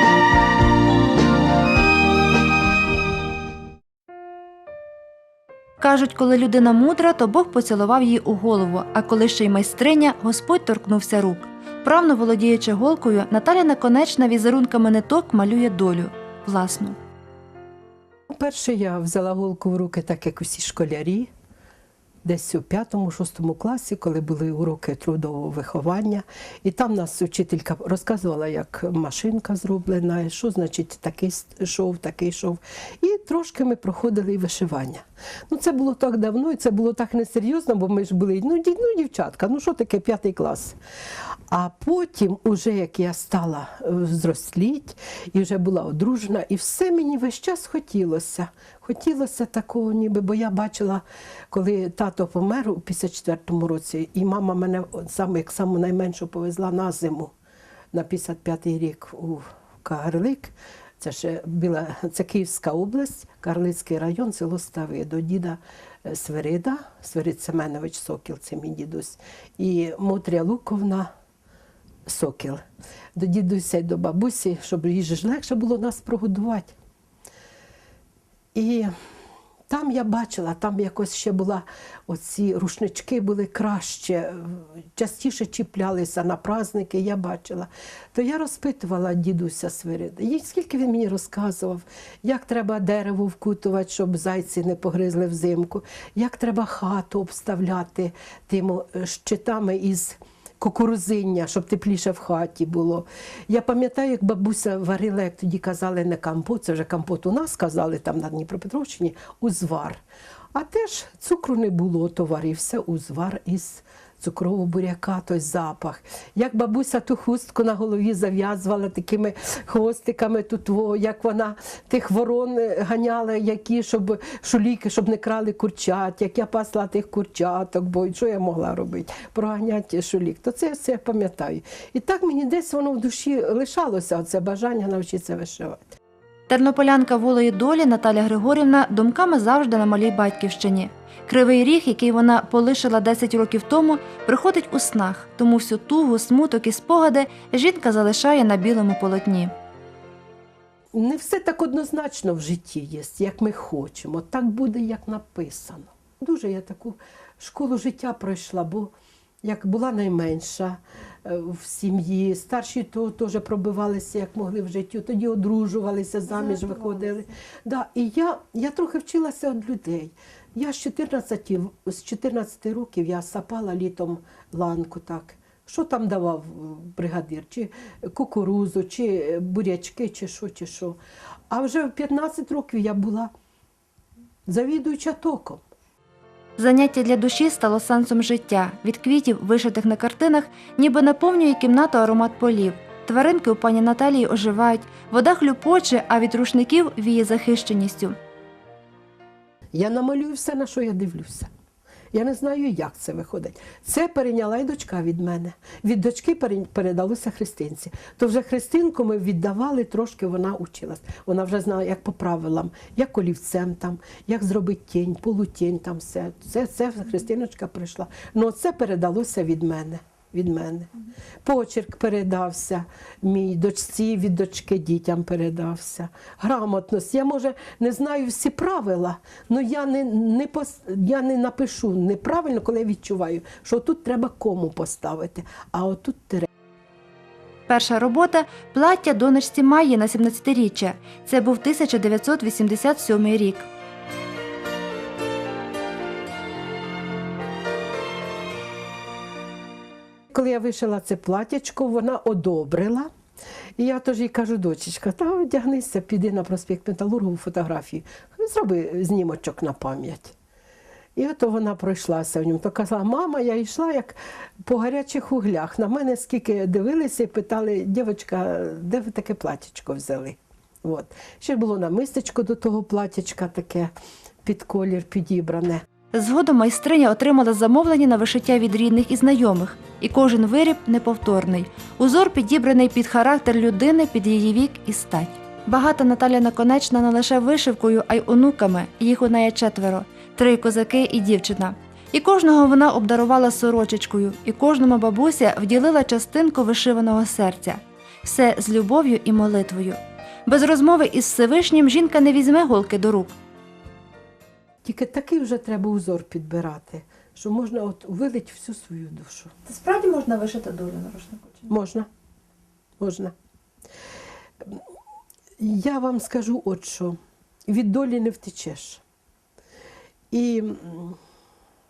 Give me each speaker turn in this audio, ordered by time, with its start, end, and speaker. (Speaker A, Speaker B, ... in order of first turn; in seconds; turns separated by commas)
Speaker A: 5.8-17.0, Speaker B: 18.3-21.3, Speaker B: 22.2-40.8, Speaker B: 41.5-57.3, Speaker B: 57.9-71.1, Speaker B: 72.0-72.6, Speaker B: 73.1-76.7, Speaker B: 78.5-78.9, Speaker B: 79.7-110.0, Speaker B: 110.5-135.9, Speaker A: 136.5-149.5, Speaker B: 150.9-158.9, Speaker B: 159.4-181.0, Speaker B: 181.5-183.3, Speaker B: 184.5-185.6, Speaker A: 186.6-198.1, Speaker B: 199.7-201.5, Speaker B: 202.1-220.9, Speaker B: 221.4-236.5, Speaker A: 237.7-243.7, Speaker B: 250.3-253.1, Speaker B: 253.8-260.3, Speaker B: 261.1-273.9, Speaker B: 274.4-275.8, Speaker A: 276.1-303.3, Speaker B: 304.8-309.5, Speaker A: 309.6-311.7, Speaker B: 311.7-312.1, Speaker B: 313.0-313.3, Speaker B: 315.6-317.2, Speaker B: 317.7-319.0, Speaker B: 320.3-321.2